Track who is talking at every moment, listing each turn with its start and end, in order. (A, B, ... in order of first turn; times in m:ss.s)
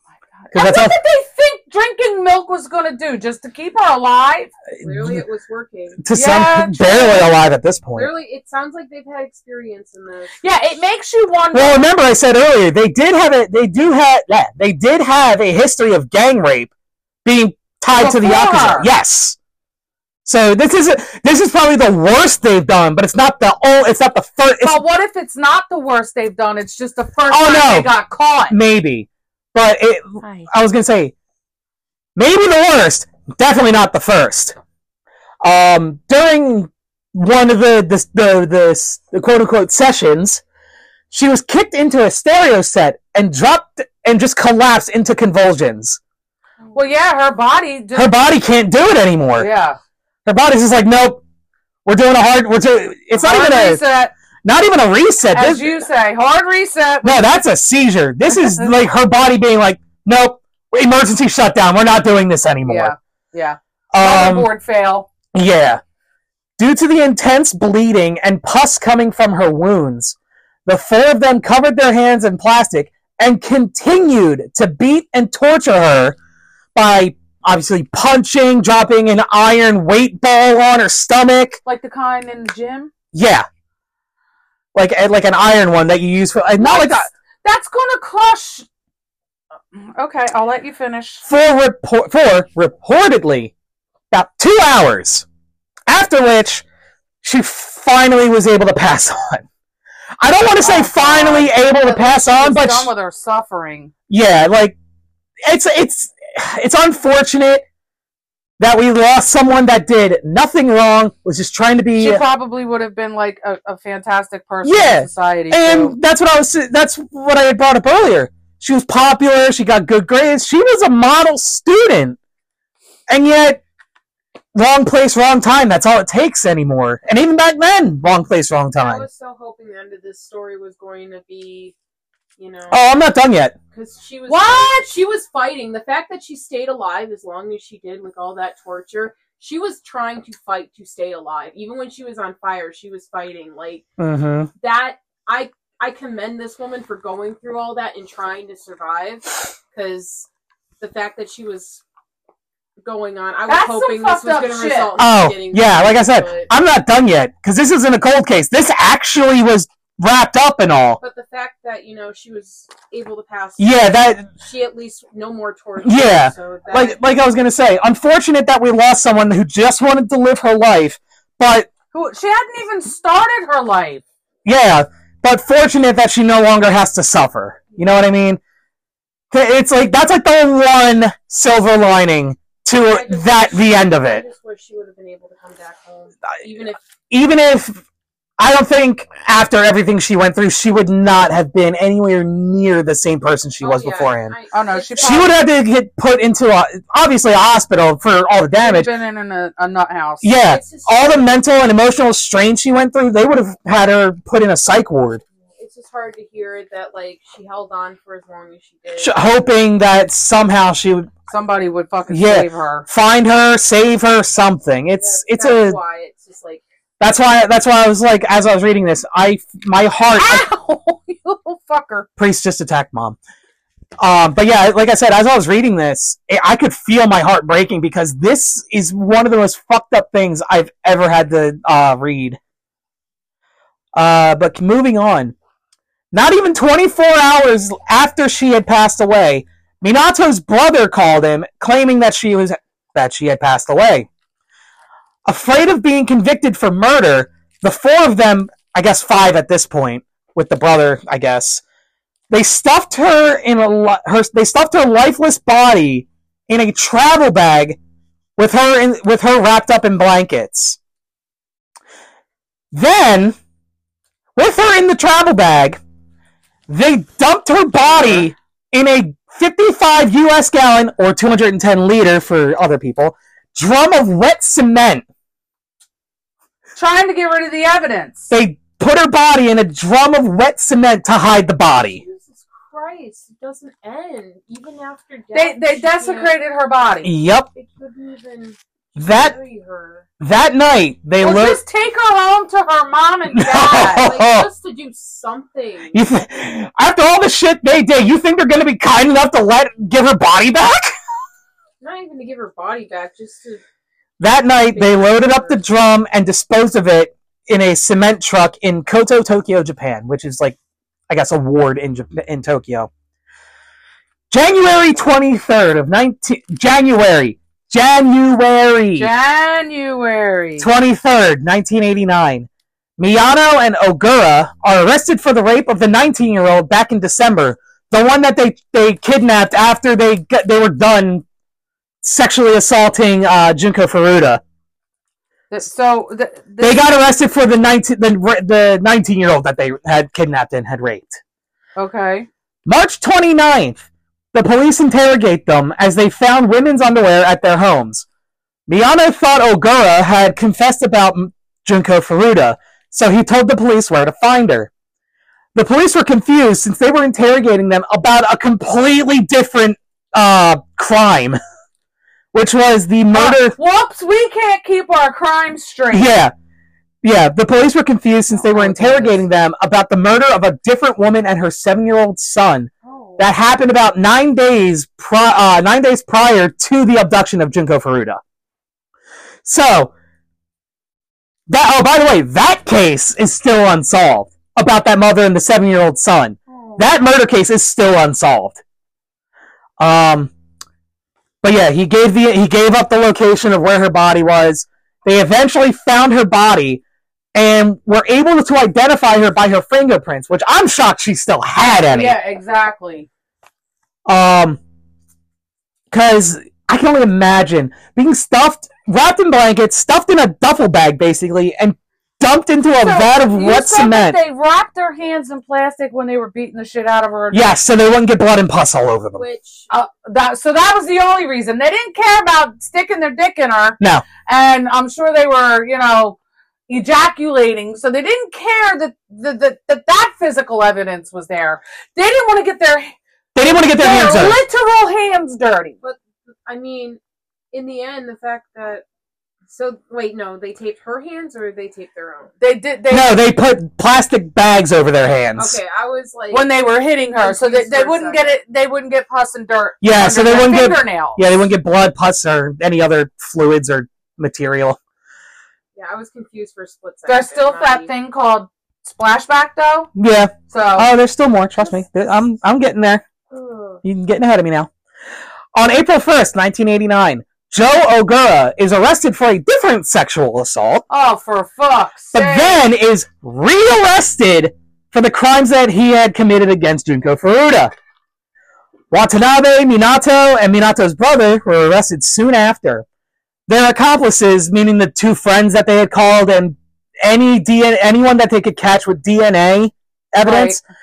0:00.3-0:04.5 A
0:00.5-0:00.9 B
0:04.8-0:05.2 B
0:04.8-0:06.0 C
0:06.0-0:08.1 B
0:06.1-0:07.2 A
0:07.9-0:10.5 C
0:10.4-0:11.9 A
0:11.5-0:16.7 B
0:17.2-0:19.4 B
0:17.9-0:18.9 A
0:20.2-0:24.8 B
0:24.6-0:28.6 A
0:27.3-0:27.9 B
0:28.5-0:31.1 B
0:32.2-0:34.6 B
0:35.4-0:40.4 B
0:41.1-0:46.0 B
0:46.7-0:48.2 A
0:47.9-0:49.5 B
0:49.4-0:49.8 A
0:50.2-0:51.2 B
0:51.8-0:53.8 B
0:53.1-0:54.1 A
0:54.4-0:55.8 B
0:55.3-0:57.3 A
0:57.0-1:02.9 B
1:02.6-1:05.1 A
1:03.9-1:04.5 B
1:05.3-1:05.8 B
1:06.6-1:16.2 B
1:16.7-1:21.6 B
1:21.6-1:22.9 A
1:23.1-1:23.4 B
1:24.7-1:27.1 B
1:26.6-1:28.7 A
1:29.7-1:31.2 A
1:31.2-1:33.5 B
1:34.1-1:35.2 B
1:35.9-1:36.6 B
1:37.2-1:39.4 B
1:40.2-1:42.9 B
1:40.6-1:43.9 A
1:44.1-1:44.8 B
1:45.4-1:47.6 B
1:48.6-1:52.2 B
1:52.0-1:56.0 A
1:54.6-2:02.2 B
2:03.1-2:03.6 B
2:04.5-2:09.0 B
2:08.8-2:11.8 C
2:12.4-2:12.8 C
2:12.7-2:13.5 B
2:13.7-2:23.8 C
2:14.3-2:14.9 A
2:24.0-2:24.5 B
2:24.6-2:30.3 C
2:30.8-2:31.8 C
2:32.8-2:36.5 C
2:33.5-2:34.9 A
2:35.0-2:41.0 B
2:41.0-2:47.0 C
2:43.6-2:44.2 B
2:45.8-2:51.7 B
2:51.9-2:54.0 A
2:54.4-2:58.4 B
2:59.3-3:04.2 B
3:02.8-3:06.8 C
3:07.1-3:07.8 B
3:08.4-3:14.3 B
3:13.6-3:15.3 C
3:14.5-3:15.3 A
3:15.0-3:18.9 B
3:18.6-3:20.3 A
3:20.2-3:25.2 B
3:20.4-3:21.3 C
3:25.6-3:29.2 C
3:29.0-3:31.1 B
3:31.3-3:32.9 A
3:32.1-3:35.8 B
3:35.0-3:36.6 C
3:37.0-3:40.4 B
3:40.1-3:42.1 A
3:42.2-3:43.2 B
3:44.0-3:52.4 B
3:53.9-3:55.3 B
3:56.1-4:04.1 B
4:05.2-4:11.6 B
4:12.3-4:17.8 B
4:18.4-4:20.8 B
4:22.7-4:23.4 B
4:24.4-4:25.8 B
4:26.7-4:35.0 B
4:27.9-4:28.2 A
4:36.8-4:38.3 A
4:38.3-4:42.0 B
4:41.7-4:46.3 C
4:45.3-4:47.1 A
4:47.0-4:47.5 B
4:47.5-4:50.1 C
4:49.0-4:49.3 B
4:50.2-4:51.6 B
4:51.2-4:54.1 A
4:53.3-4:54.5 B
4:53.7-4:56.0 C
4:55.9-5:00.9 B
5:01.8-5:03.6 C
5:04.2-5:10.6 B
5:04.7-5:05.6 C
5:11.1-5:12.9 B
5:14.3-5:19.1 B
5:18.9-5:20.7 A
5:20.6-5:31.2 B
5:32.0-5:34.4 B
5:35.5-5:36.8 A
5:36.6-5:41.2 B
5:41.8-5:42.3 A
5:42.6-5:43.8 B
5:44.3-5:48.0 B
5:48.7-5:54.7 B
5:55.5-6:01.4 B
6:02.3-6:03.6 B
6:03.1-6:06.2 A
6:05.9-6:06.3 B
6:07.0-6:18.2 B
6:08.3-6:09.2 A
6:12.9-6:13.2 C
6:12.9-6:13.2 A
6:19.4-6:19.9 B
6:21.5-6:28.6 B
6:29.8-6:30.3 B
6:31.4-6:36.8 B
6:37.3-6:42.2 B
6:41.8-6:43.1 A
6:44.1-6:44.6 B
6:45.9-6:54.2 B
6:52.8-6:57.5 A
6:57.3-6:59.2 B
6:59.1-6:59.7 C
6:59.7-7:06.2 A
7:03.8-7:04.0 B
7:06.7-7:12.9 A
7:13.3-7:14.4 B
7:13.7-7:15.8 A
7:15.8-7:17.0 C
7:17.5-7:18.8 C
7:19.5-7:22.3 C
7:22.4-7:23.1 A
7:22.9-7:25.6 B
7:25.4-7:26.5 C
7:26.3-7:31.4 A
7:27.2-7:28.3 C
7:29.8-7:34.8 B
7:35.7-7:37.9 C
7:37.0-7:39.9 A
7:40.0-7:43.0 B
7:40.5-7:40.9 A
7:43.3-7:43.8 C
7:43.8-7:44.7 B
7:45.5-7:50.8 B
7:50.9-7:52.6 A
7:52.1-7:57.7 B
7:58.9-8:02.8 B
8:03.5-8:10.6 B
8:10.2-8:10.6 A